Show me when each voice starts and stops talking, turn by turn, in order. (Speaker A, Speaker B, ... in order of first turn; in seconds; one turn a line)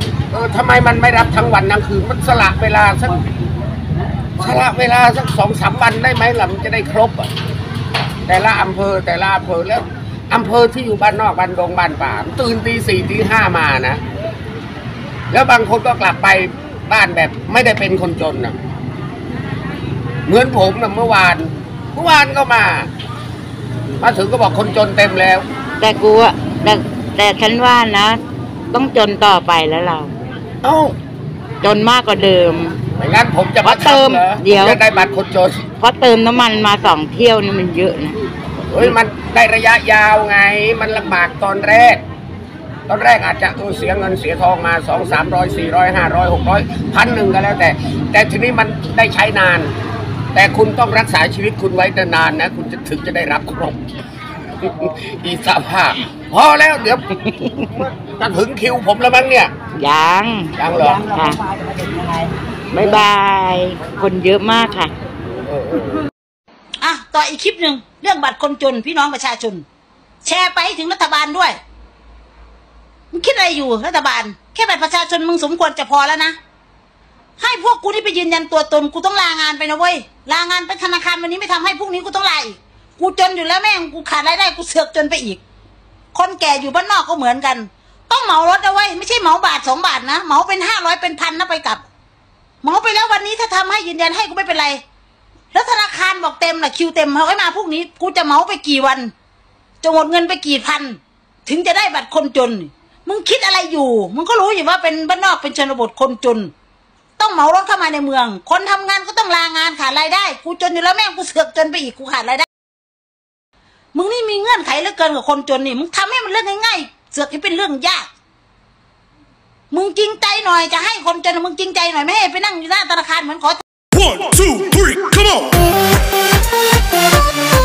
Speaker A: 0.3-3.2
Speaker A: 4.4-7.3
Speaker A: 8.3-14.0
Speaker A: 15.3-18.6
Speaker A: 20.3-22.9
Speaker A: 24.0-25.5
Speaker B: 25.8-30.1
Speaker A: 30.6-30.9
Speaker B: 31.6-32.8
Speaker A: 33.0-35.7
Speaker B: 33.6-34.8
Speaker B: 35.8-38.2
Speaker A: 38.7-42.0
Speaker A: 42.9-49.7
Speaker A: 50.3-53.8
Speaker A: 54.6-57.0
Speaker B: 57.2-57.7
Speaker A: 57.8-59.5
Speaker B: 59.7-60.6
Speaker A: 60.6-61.1
Speaker B: 61.1-61.4
Speaker B: 62.7-64.9
Speaker A: 65.4-66.1
Speaker C: 66.8-69.7
Speaker C: 70.2-71.6
Speaker C: 73.1-76.4
Speaker C: 77.4-85.4
Speaker C: 86.1-91.9
Speaker C: 92.6-94.8
Speaker C: 95.5-99.1
Speaker C: 99.8-106.5
Speaker C: 107.2-112.5
Speaker C: 113.9-118.1
Speaker C: 119.7-123.6